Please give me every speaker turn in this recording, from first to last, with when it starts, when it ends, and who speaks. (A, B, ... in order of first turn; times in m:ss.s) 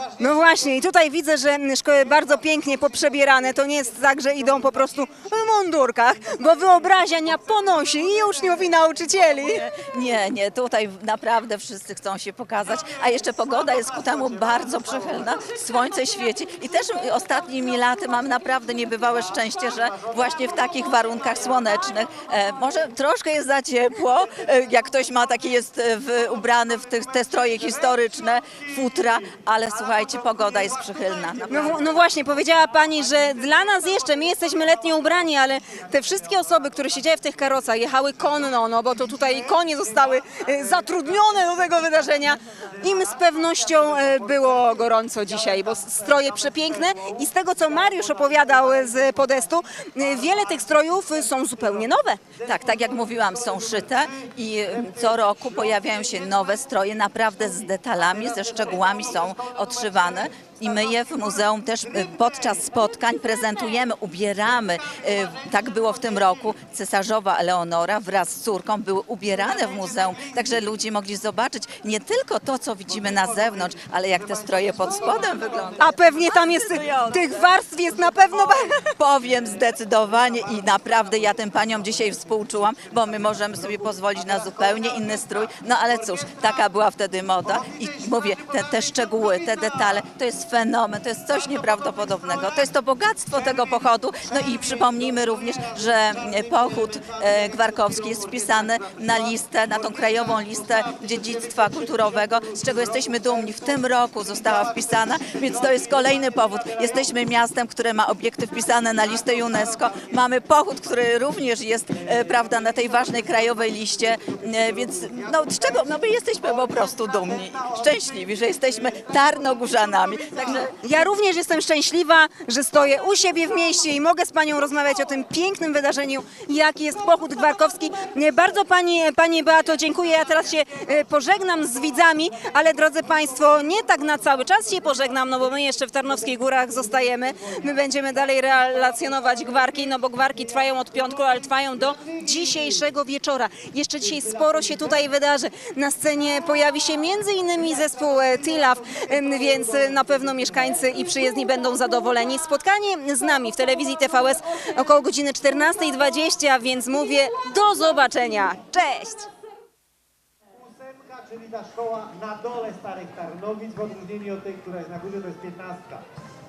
0:00.2-0:09.6 A
0:09.5-0:31.8 B
0:31.5-0:52.2 A
0:52.4-1:15.8 B
1:15.8-1:18.9 A
1:16.8-1:17.1 B
1:19.0-2:00.7 B
2:00.8-2:39.3 A
2:41.4-2:43.3 C
2:44.3-2:45.6 C